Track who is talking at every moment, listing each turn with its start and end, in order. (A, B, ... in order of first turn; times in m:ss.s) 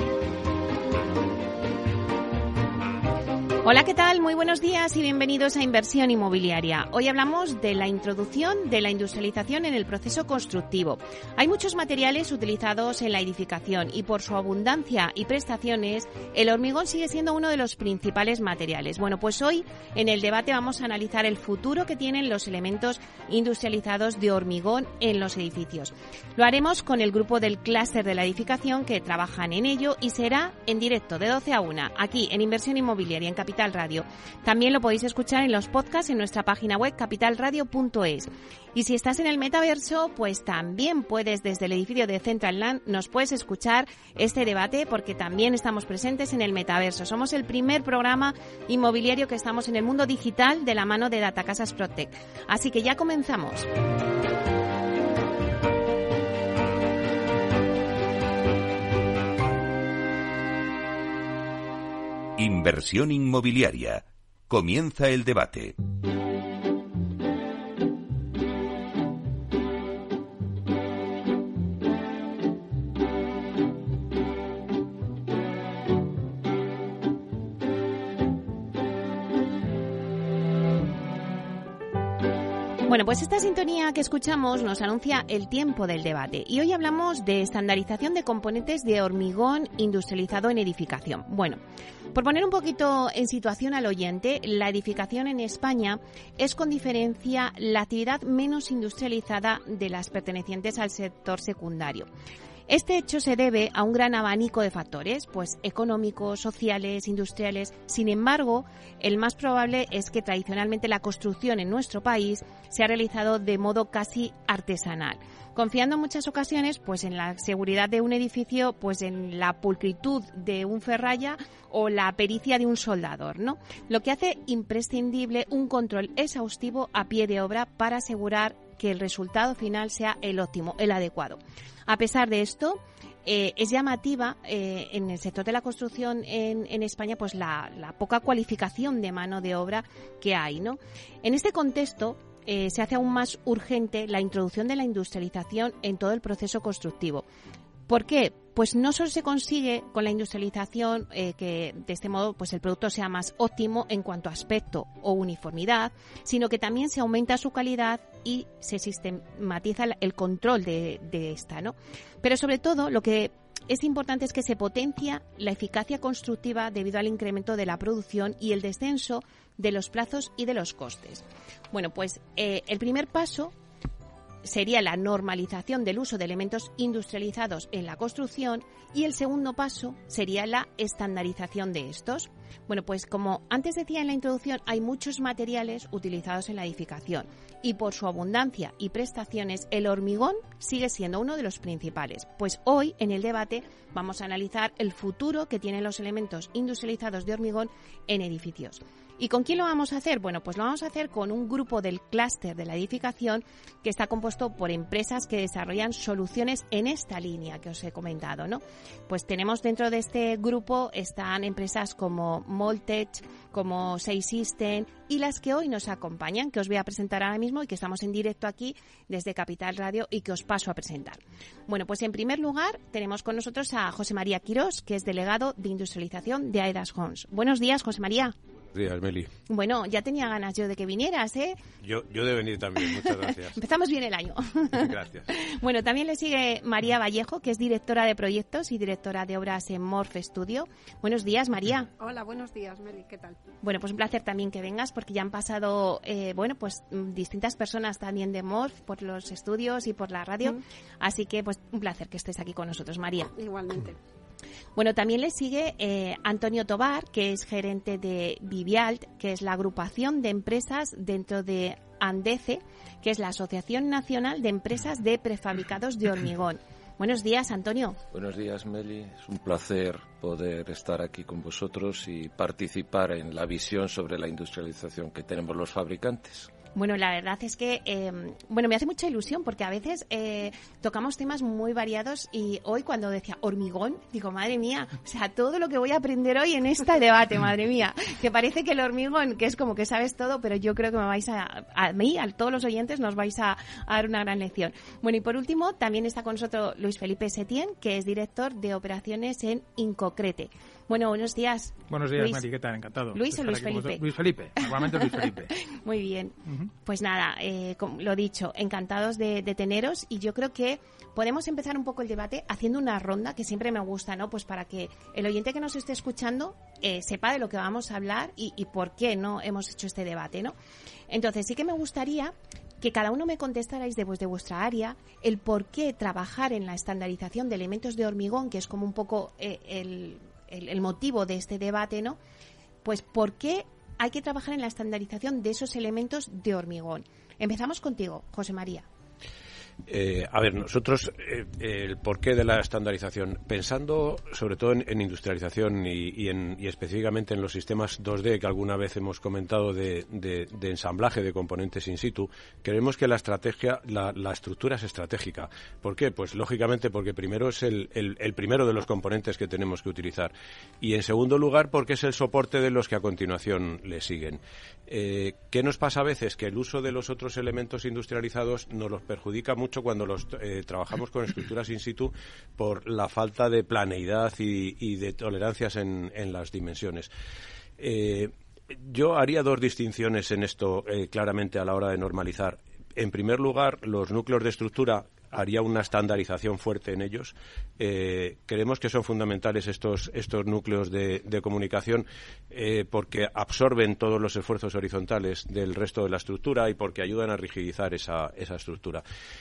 0:03.6-0:53.7 A
1:02.4-1:05.8 B
1:22.9-1:31.6 A
1:32.1-1:42.1 A
1:42.7-2:27.2 A
2:27.9-2:53.5 A
2:54.4-3:48.3 A
3:48.7-3:49.3 C
3:49.5-3:51.6 A
3:51.8-3:53.6 C
3:52.8-4:01.9 A
3:54.8-3:55.2 C
4:02.0-4:03.4 D
4:03.6-4:13.3 A
4:13.3-4:14.0 D
4:14.8-4:28.0 A
4:28.1-4:36.5 E
4:36.8-5:02.4 A
5:01.9-5:05.5 F
5:03.1-5:04.0 A
5:04.8-5:20.6 A
5:21.1-5:32.2 A
5:32.8-5:38.9 A
5:39.9-6:17.1 C
6:17.8-6:39.0 C